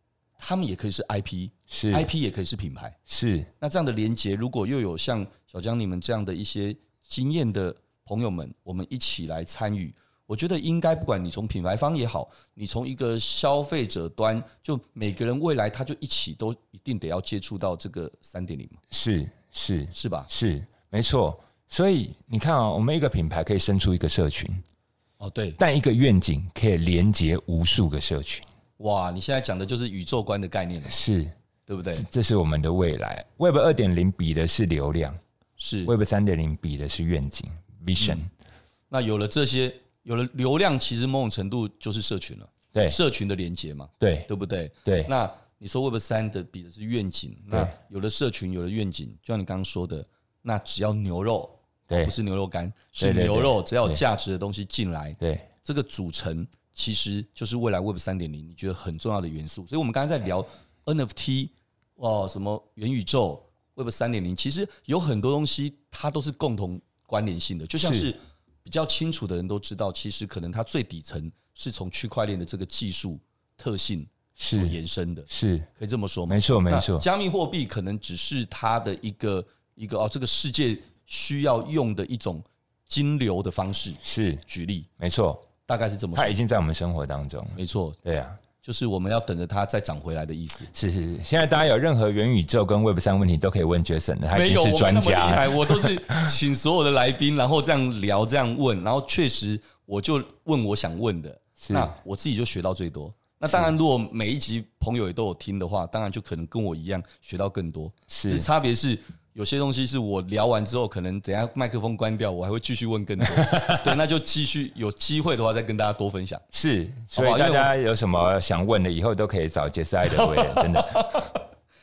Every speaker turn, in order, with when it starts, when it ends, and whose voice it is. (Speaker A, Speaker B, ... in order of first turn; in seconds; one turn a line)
Speaker A: 0.4-3.0
Speaker B: 1.7-2.1
Speaker B: 3.1-3.5
Speaker A: 3.6-18.8
Speaker B: 18.9-24.6
Speaker A: 19.9-20.3
Speaker A: 25.2-25.6
Speaker B: 25.6-28.5
Speaker A: 28.8-31.0
Speaker B: 30.9-31.3
Speaker A: 31.7-32.0
Speaker B: 31.9-35.2
Speaker A: 35.6-35.9
Speaker B: 35.8-38.3
Speaker A: 38.0-38.3
Speaker A: 38.9-84.9
Speaker B: 44.0-44.3
Speaker B: 44.8-45.1
Speaker B: 51.9-52.1
Speaker B: 53.0-54.0
Speaker B: 55.2-55.5
Speaker B: 67.8-68.1
Speaker B: 74.4-74.8
Speaker B: 75.3-75.7
Speaker B: 76.3-77.0
Speaker B: 84.0-84.4
Speaker B: 85.0-85.5
Speaker A: 85.6-86.4
Speaker B: 86.1-88.4
Speaker A: 87.5-88.0
Speaker A: 88.6-90.7
Speaker B: 90.7-96.3
Speaker A: 94.3-116.4
Speaker B: 101.6-102.0
Speaker B: 108.1-108.5
Speaker B: 113.3-113.9
Speaker B: 116.5-121.2
Speaker A: 117.1-117.7
Speaker A: 120.1-121.4